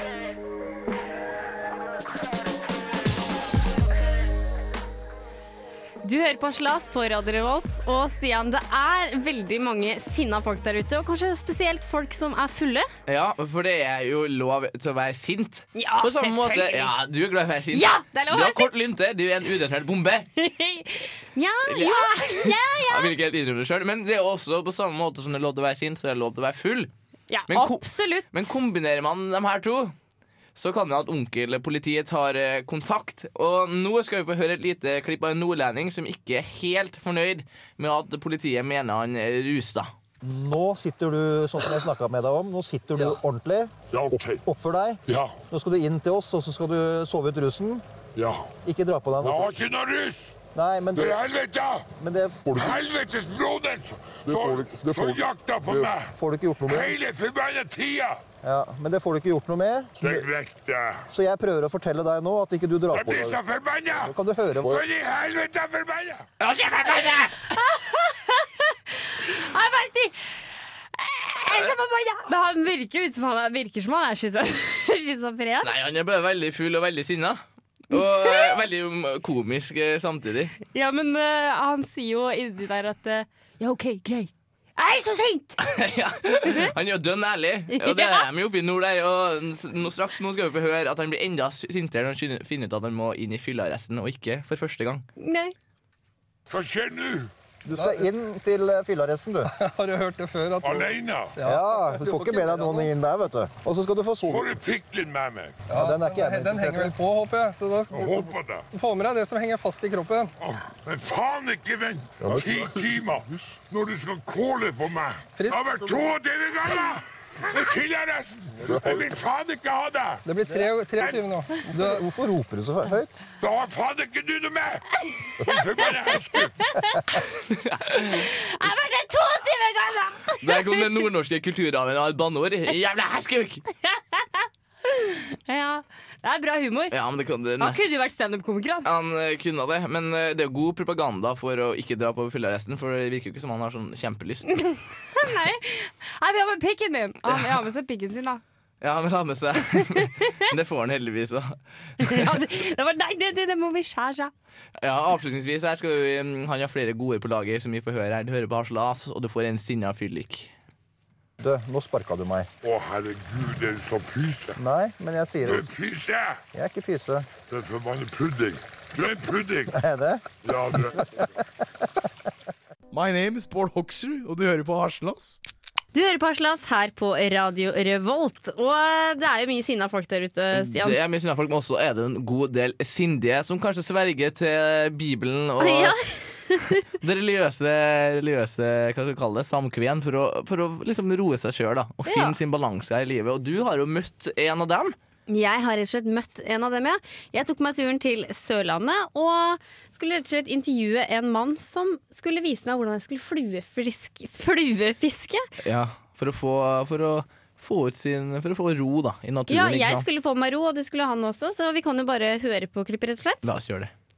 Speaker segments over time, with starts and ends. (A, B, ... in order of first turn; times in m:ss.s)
0:06.0-0:12.9 A
0:13.1-0:20.3 B
0:15.8-0:16.9 A
0:17.7-0:18.7 A
0:20.4-0:23.1 A
0:21.7-0:26.9 B
0:27.3-0:28.5 A
0:27.5-0:29.9 B
0:30.6-0:39.9 B
0:40.2-0:47.8 C
0:43.9-0:44.4 D
0:45.1-0:45.4 D
0:48.2-0:48.5 D
0:48.6-0:49.6 C
0:49.2-0:50.4 D
0:50.6-0:51.2 C
0:50.9-0:51.9 D
0:52.0-0:52.8 C
0:52.5-0:56.1 D
0:54.3-0:55.1 C
0:55.9-0:57.0 C
0:56.7-0:58.2 D
0:58.4-1:00.3 C
1:00.0-1:01.1 D
1:01.1-1:03.4 C
1:02.9-1:06.3 D
1:04.0-1:04.8 C
1:06.4-1:07.4 B
1:07.5-1:10.2 A
1:10.9-1:15.7 A
1:15.6-1:20.6 B
1:17.9-1:18.5 A
1:20.7-1:25.7 A
1:25.6-1:35.0 B
1:26.4-1:26.7 A
1:27.7-1:28.3 A
1:35.2-1:35.5 A
1:36.5-1:37.3 D
1:37.6-1:39.5 C
1:37.7-1:38.0 E
1:39.5-1:42.9 E
1:40.6-1:41.4 D
1:41.4-1:44.5 C
1:44.3-1:45.6 D
1:45.7-1:50.3 E
1:45.8-1:46.9 C
1:47.9-1:48.7 D
1:50.4-2:00.2 D
1:52.2-1:52.8 C
1:55.4-1:55.7 E
2:00.2-2:02.1 E
2:01.8-2:03.2 C
2:03.4-2:04.9 D
2:05.4-2:06.7 D
2:07.5-2:08.3 B
2:08.1-2:11.0 A
2:10.4-2:13.6 B
2:13.8-2:16.9 A
2:16.9-2:17.8 B
2:17.6-2:18.9 A
2:18.8-2:24.6 B
2:24.6-2:28.4 A
2:27.3-2:27.5 B
2:28.8-2:32.4 B
2:29.9-2:30.3 A
2:32.0-2:34.3 A
2:34.8-2:40.5 B
2:41.4-2:42.5 C
2:42.6-2:44.6 D
2:44.6-2:45.6 C
2:45.4-2:46.4 D
2:46.5-2:47.3 C
2:47.5-2:49.8 D
2:49.7-2:50.2 C
2:50.4-2:51.1 D
2:50.9-2:51.2 C
2:52.9-2:55.4 F
2:55.9-3:01.0 A
3:00.5-3:06.0 B
3:05.6-3:06.8 A
3:06.9-3:14.9 B
3:12.1-3:12.4 A
3:15.3-3:25.4 A
3:25.6-3:30.1 B
3:29.5-3:33.4 A
3:33.4-3:33.9 B